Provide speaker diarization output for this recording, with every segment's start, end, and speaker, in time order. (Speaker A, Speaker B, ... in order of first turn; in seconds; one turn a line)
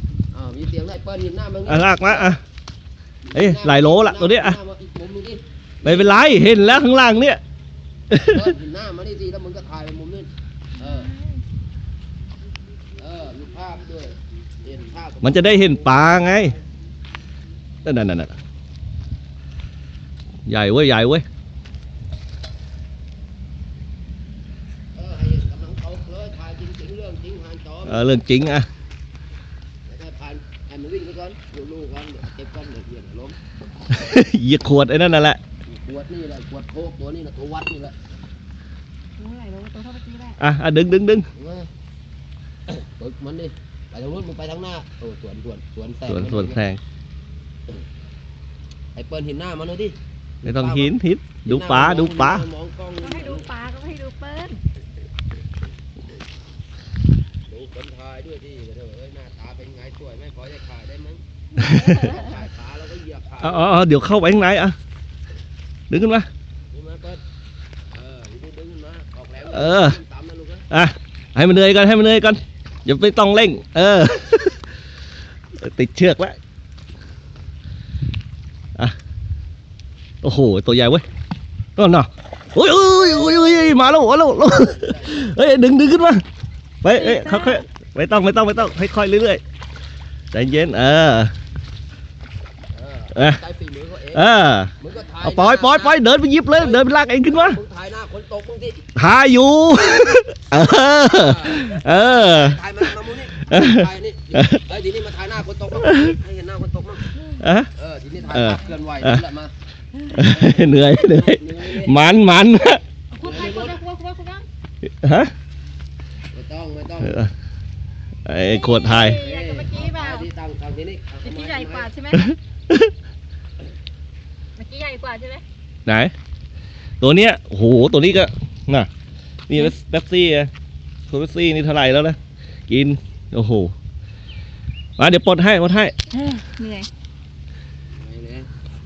Speaker A: 0.3-2.4
Speaker B: 1.6-2.4
Speaker A: 3.2-6.6
Speaker B: 3.3-4.6
Speaker B: 5.8-7.4
Speaker B: 8.1-8.5
Speaker A: 8.1-11.1
Speaker C: 10.8-11.4
Speaker A: 13.0-16.6
Speaker B: 15.2-16.5
Speaker B: 17.8-18.4
Speaker B: 20.4-21.2
Speaker A: 24.9-28.3
Speaker B: 27.9-28.7
Speaker A: 29.9-33.4
Speaker B: 33.9-35.4
Speaker A: 35.7-38.0
Speaker C: 39.2-40.4
Speaker B: 40.4-41.3
Speaker A: 41.3-41.7
Speaker A: 42.7-46.6
Speaker B: 46.1-46.8
Speaker A: 49.0-53.5
Speaker B: 50.4-52.5
Speaker C: 53.0-54.6
Speaker A: 57.5-63.8
Speaker B: 61.6-62.0
Speaker C: 61.8-62.3
Speaker B: 63.4-64.8
Speaker B: 65.9-66.3
Speaker A: 66.7-67.2
Speaker A: 67.9-70.7
Speaker B: 69.5-70.0
Speaker B: 70.7-74.6
Speaker B: 75.6-76.4
Speaker B: 80.2-81.0
Speaker B: 81.8-86.2
Speaker A: 84.5-85.2
Speaker B: 86.8-89.4
Speaker C: 87.0-87.6
Speaker B: 90.3-91.3
Speaker A: 92.7-94.3
Speaker B: 93.1-93.4
Speaker B: 94.1-97.6
Speaker A: 94.8-96.0
Speaker A: 96.5-98.9
Speaker B: 98.9-102.6
Speaker A: 101.0-107.0
Speaker B: 103.4-104.6
Speaker B: 105.8-106.1
Speaker B: 107.4-107.7
Speaker A: 107.8-109.5
Speaker B: 108.3-109.2
Speaker B: 110.1-112.8
Speaker A: 110.2-112.0
Speaker C: 113.1-114.5
Speaker A: 113.2-113.8
Speaker B: 114.9-115.3
Speaker A: 116.3-117.3
Speaker B: 117.0-117.3
Speaker B: 118.2-119.2
Speaker C: 118.4-120.3
Speaker A: 119.0-121.9
Speaker C: 121.2-122.3
Speaker B: 122.1-122.9
Speaker C: 124.6-125.4
Speaker B: 125.8-126.1
Speaker B: 127.0-128.9
Speaker B: 129.5-130.5
Speaker B: 131.1-132.2
Speaker B: 132.7-133.7
Speaker B: 135.0-135.9
Speaker C: 136.1-136.9
Speaker A: 137.9-138.5